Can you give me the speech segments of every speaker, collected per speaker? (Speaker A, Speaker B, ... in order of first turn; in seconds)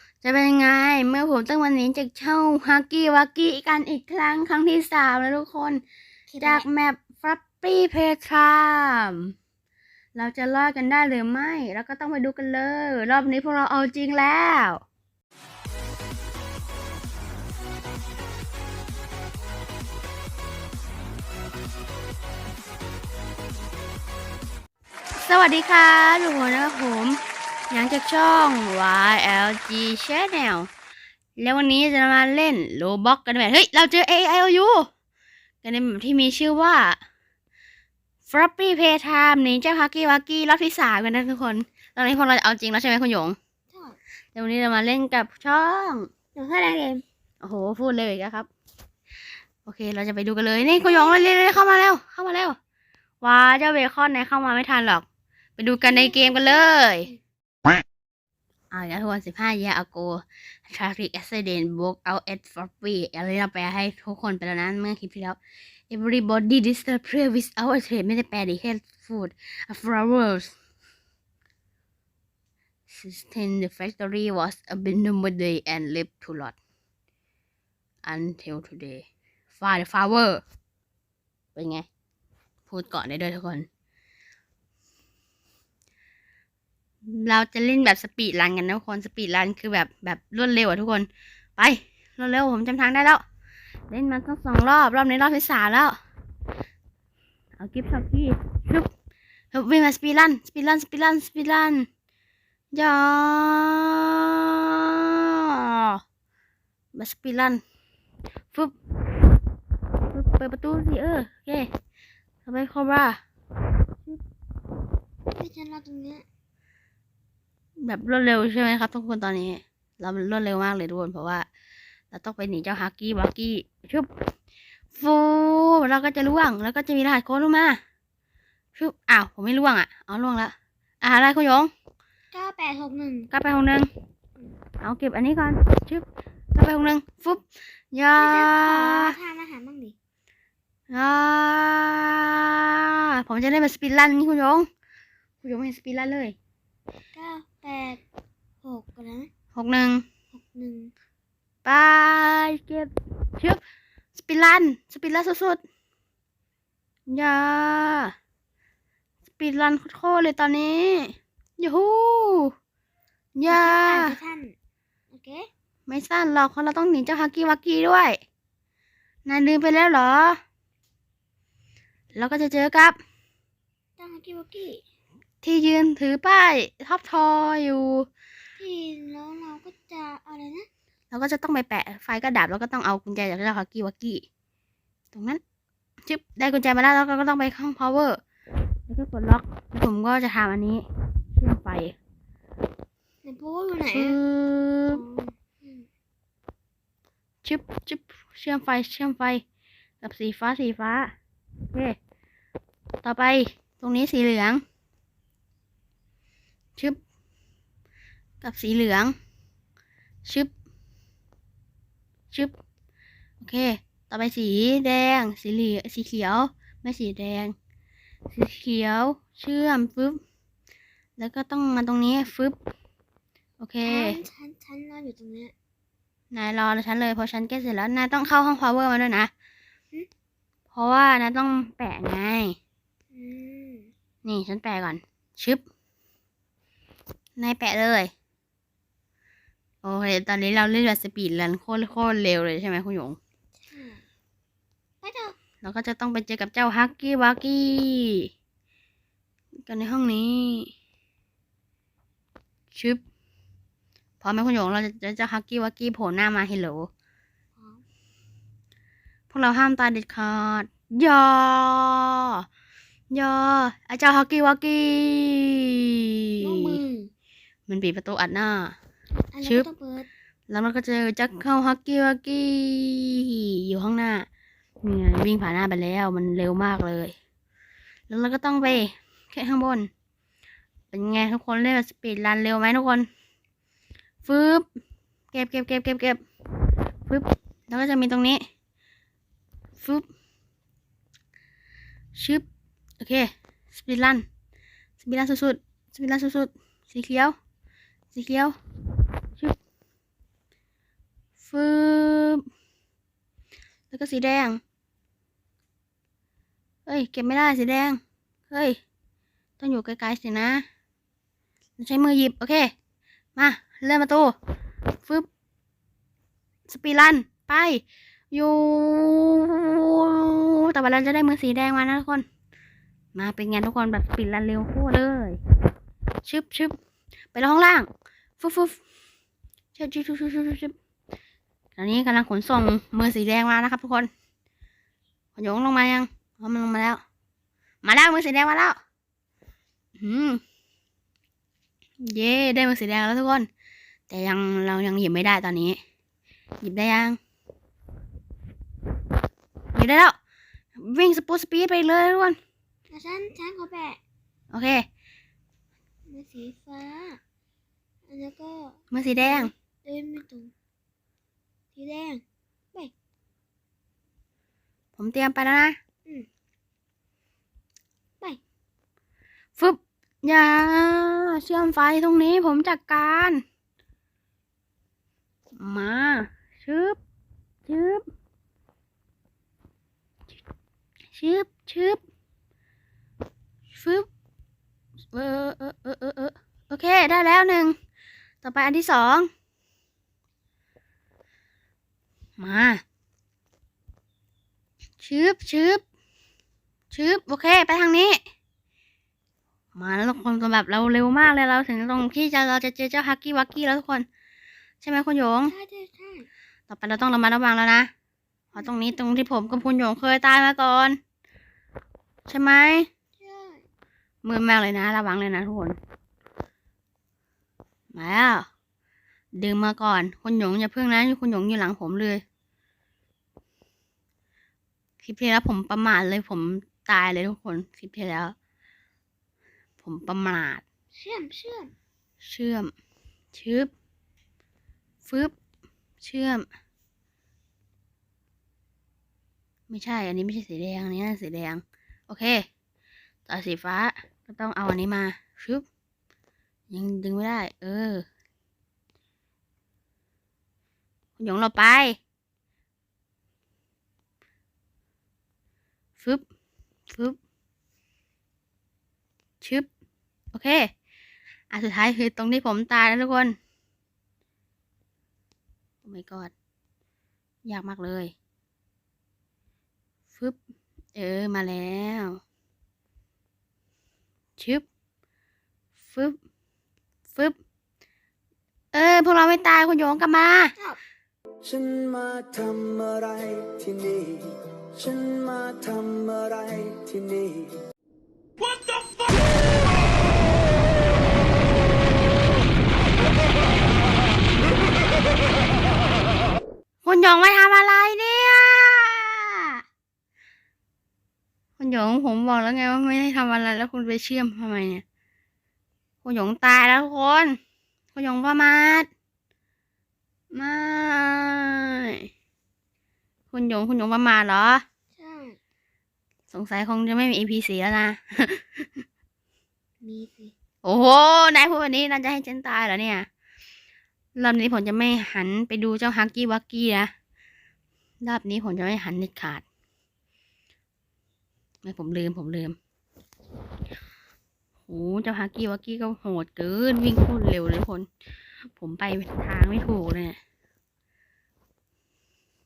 Speaker A: 0.2-5.8, 6.4-9.3, 10.1-14.8, 25.2-27.2, 27.7-30.7, 31.4-34.9, 35.6-37.0, 38.3-43.4, 44.3-46.1, 47.4-48.5, 49.6-52.6, 53.2-55.0, 55.6-57.1, 58.7-65.4, 65.9-70.5, 72.9-76.5, 78.0-80.4, 81.5-81.8, 82.7-83.7, 87.0-93.2, 93.9-96.0, 97.6-98.9, 99.5-101.9, 102.7-106.0, 106.9-107.6, 110.1-111.7, 112.4-113.2, 117.8-121.4, 122.1-124.1, 124.9-127.8, 128.7-131.7, 133.3-133.9, 134.8-139.1, 140.9-144.7, 145.4-146.3, 149.5-150.0, 151.6-153.6, 154.1-155.6, 157.1-158.1, 159.4-162.5, 163.3-164.1, 165.9-168.2, 169.2-170.4, 172.1-173.0, 175.4-178.1, 181.1-184.2, 185.1-185.4, 186.1-188.2, 188.9-190.8, 191.3-191.9, 193.9-195.0, 197.4-199.4, 200.0-201.1, 203.0-204.6, 208.4-209.1, 210.2-210.5, 213.4-217.5, 218.3-220.2, 221.2-222.6, 223.6-224.2, 226.3-229.3, 230.7-232.6, 234.2-235.6, 237.4-238.1, 239.8-243.2, 245.6-248.3, 249.7-250.7, 252.7-253.0, 254.2-256.9, 259.3-262.4, 263.1-266.8, 267.7-268.7, 270.5-274.2, 274.8-277.1, 278.1-279.9, 280.9-283.1, 284.2-284.6, 285.3-286.2, 287.1-288.4, 289.8-290.0, 292.1-292.4, 293.0-294.2, 295.0-297.3, 298.1-298.5, 301.4-302.4, 303.9-304.6, 306.9-308.8, 309.6-310.6, 311.8-312.7, 313.4-314.3, 316.7-322.2, 323.1-325.4, 326.2-326.7, 327.3-327.9, 328.4-328.8, 329.7-330.7, 331.8-334.1, 335.4-337.0, 337.8-338.8, 340.0-340.4, 342.0-343.5, 344.1-345.8, 346.6-347.2, 349.7-350.1, 350.8-352.4, 354.5-354.8, 358.9-359.5, 365.0-365.8, 369.6-373.4, 375.6-377.0, 377.7-378.0, 381.1-382.0, 383.7-384.1, 385.1-387.7, 388.4-389.3, 392.4-392.8, 395.0-395.8, 396.9-398.2, 399.7-404.1, 404.8-405.5, 406.7-407.9, 408.5-411.0, 412.3-412.9, 414.2-415.8, 417.9-418.4, 419.3-422.2, 425.0-428.3, 429.8-430.6, 432.2-432.7, 433.3-433.7, 435.1-435.3, 436.0-436.4, 439.7-442.4, 443.2-445.6, 446.7-448.0, 451.2-452.0, 456.9-457.2, 459.4-459.7, 460.3-460.7, 461.5-463.3, 465.8-466.3, 467.4-468.1, 470.9-472.2, 474.4-474.6, 475.9-476.2, 478.7-480.5, 496.8-499.6, 501.6-504.8, 506.0-507.4, 507.9-508.9, 510.3-512.1, 513.3-514.6, 516.3-518.8, 520.6-523.1, 524.2-526.9, 528.0-529.4, 531.6-532.5, 534.7-537.9, 538.6-540.2
Speaker B: 6.3-6.7, 43.7-44.0, 46.4-47.0, 50.7-51.6, 55.8-57.2, 115.3-116.2, 132.3-133.3, 138.2-139.9, 147.1-148.0, 148.6-149.3, 150.3-150.9, 163.5-164.5, 165.1-165.5, 174.0-174.8, 178.6-180.7, 193.2-194.2, 194.9-195.8, 223.8-225.5, 233.1-233.9, 243.7-244.0, 245.0-245.3, 266.4-267.1, 269.3-270.1, 352.9-354.0, 356.1-357.2, 358.1-360.5, 361.7-362.2, 405.5-406.3, 413.2-413.6, 430.9-431.7, 515.0-515.4, 519.8-520.3
Speaker C: 481.4-487.5